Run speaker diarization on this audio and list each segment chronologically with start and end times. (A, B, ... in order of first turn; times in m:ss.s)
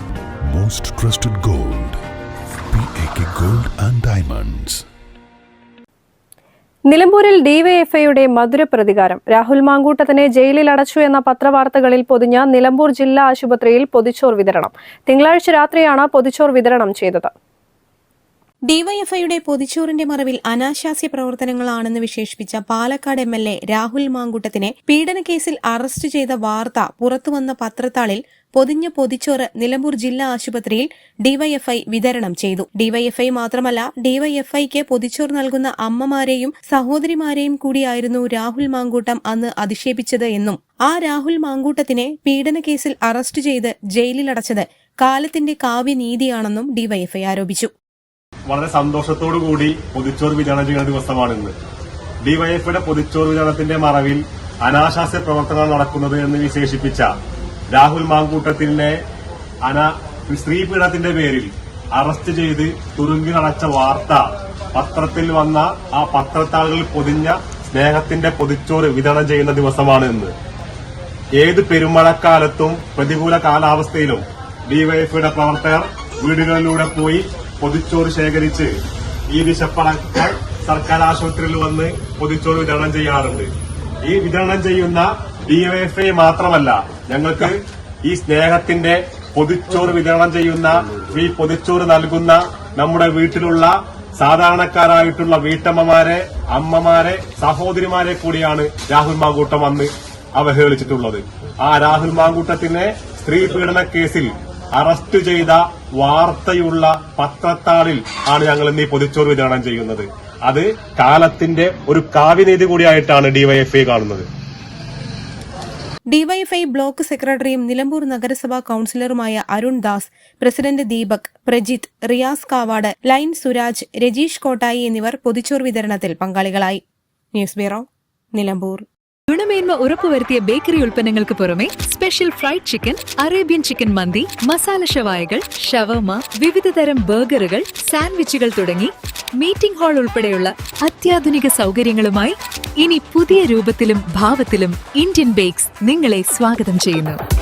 0:00.6-0:02.0 A
0:02.8-0:04.8 A
0:06.9-0:17.3 B
0:18.7-0:47.7 C
0:48.5-0:51.5 D
0:52.2-0:57.1 D
0:57.7-0:59.0 D
0:59.6-1:10.3 D
1:11.4-1:18.7 D
1:19.3-1:23.5 D
1:24.0-1:54.3 D
1:56.1-2:06.8 C
2:07.3-2:08.8 C
2:09.3-2:27.2 E